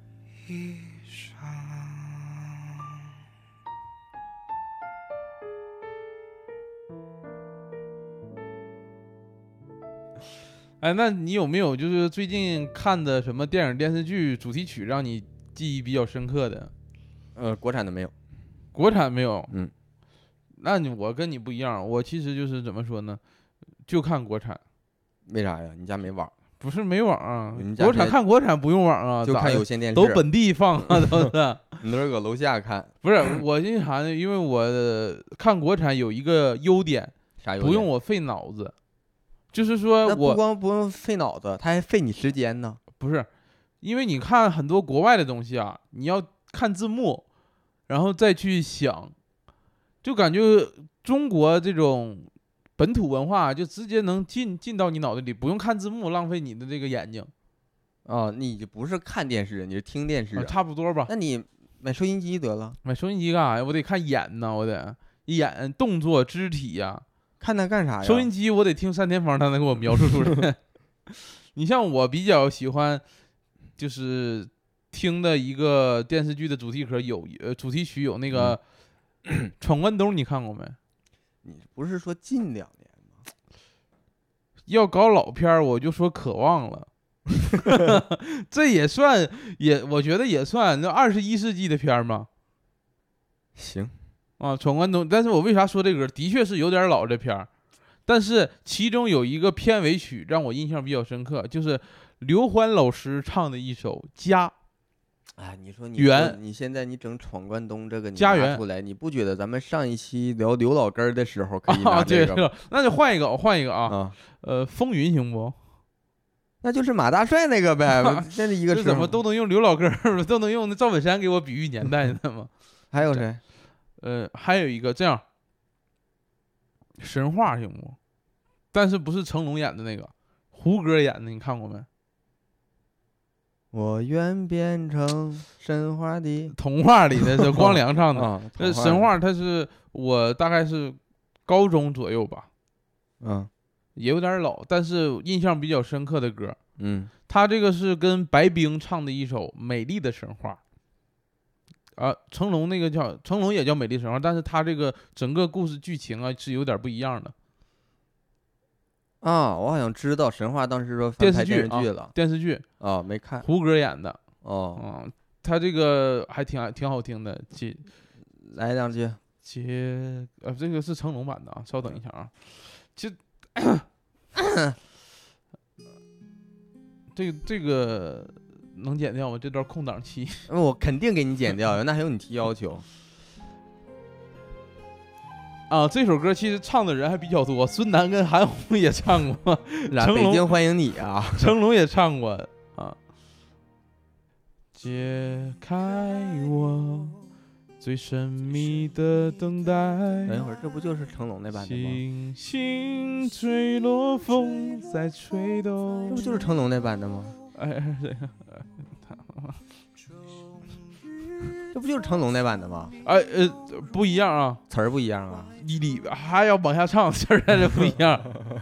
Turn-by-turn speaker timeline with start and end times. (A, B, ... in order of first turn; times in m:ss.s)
0:00.4-0:02.8 A
0:10.8-0:16.7 B
0:17.4-0:18.1 C
0:18.7-0:19.5 B
0:20.6-0:23.2 B
0:23.9-0:24.6 B
0:25.2-0:26.3 C
0:26.6-0:31.8 B
0:27.5-0:28.2 C
0:29.2-0:30.2 C
0:30.9-0:32.9 C
0:33.0-0:38.7 B
0:37.4-0:37.9 C
0:39.5-0:40.4 B
0:40.0-0:42.8 C
0:43.0-0:43.3 B
0:43.8-0:47.2 B
0:47.9-0:49.1 B
0:50.0-0:57.3 B
0:58.0-1:00.6 C
1:00.4-1:01.1 B
1:01.1-1:02.8 C
1:02.8-1:07.0 B
1:07.4-1:08.3 C
1:08.0-1:10.6 B
1:11.1-1:13.0 B
1:13.8-1:18.6 B
1:18.3-1:18.6 C
1:19.6-1:20.8 B
1:21.4-1:23.2 C
1:24.7-1:26.9 B
1:27.5-1:32.3 B
1:33.6-1:33.9 C
1:34.4-1:37.5 B
1:38.0-1:44.5 B
1:45.4-1:52.5 C
1:46.0-1:46.4 B
1:48.2-1:48.6 B
1:51.7-1:55.6 B
1:53.9-1:54.2 C
1:56.6-1:59.2 C
1:58.0-2:02.5 B
2:02.9-2:03.4 C
2:04.0-2:05.2 B
2:07.0-2:08.0 B
2:08.7-2:11.9 B
2:13.7-2:16.5 C
2:16.5-2:22.5 B
2:17.3-2:19.1 C
2:23.2-2:23.5 C
2:24.0-2:26.6 B
2:26.8-2:27.1 C
2:27.3-2:30.6 B
2:32.0-2:37.3 B
2:39.2-2:42.1 C
2:41.2-2:42.6 B
2:42.8-2:43.4 C
2:43.4-2:44.2 B
2:44.4-2:44.8 C
2:44.8-2:47.8 B
2:48.4-2:49.2 C
2:49.4-2:53.8 B
2:54.4-2:54.8 C
2:57.1-3:00.4 B
3:00.5-3:02.8 C
3:05.7-3:10.5 B
3:09.9-3:11.5 C
3:11.4-3:13.0 B
3:14.7-3:17.2 B
3:17.8-3:20.4 B
3:20.3-3:22.0 C
3:21.5-3:26.4 B
3:26.1-3:27.4 C
3:27.5-3:29.6 B
3:31.7-3:32.9 C
3:33.0-3:34.6 B
3:34.7-3:35.5 C
3:35.6-3:38.3 B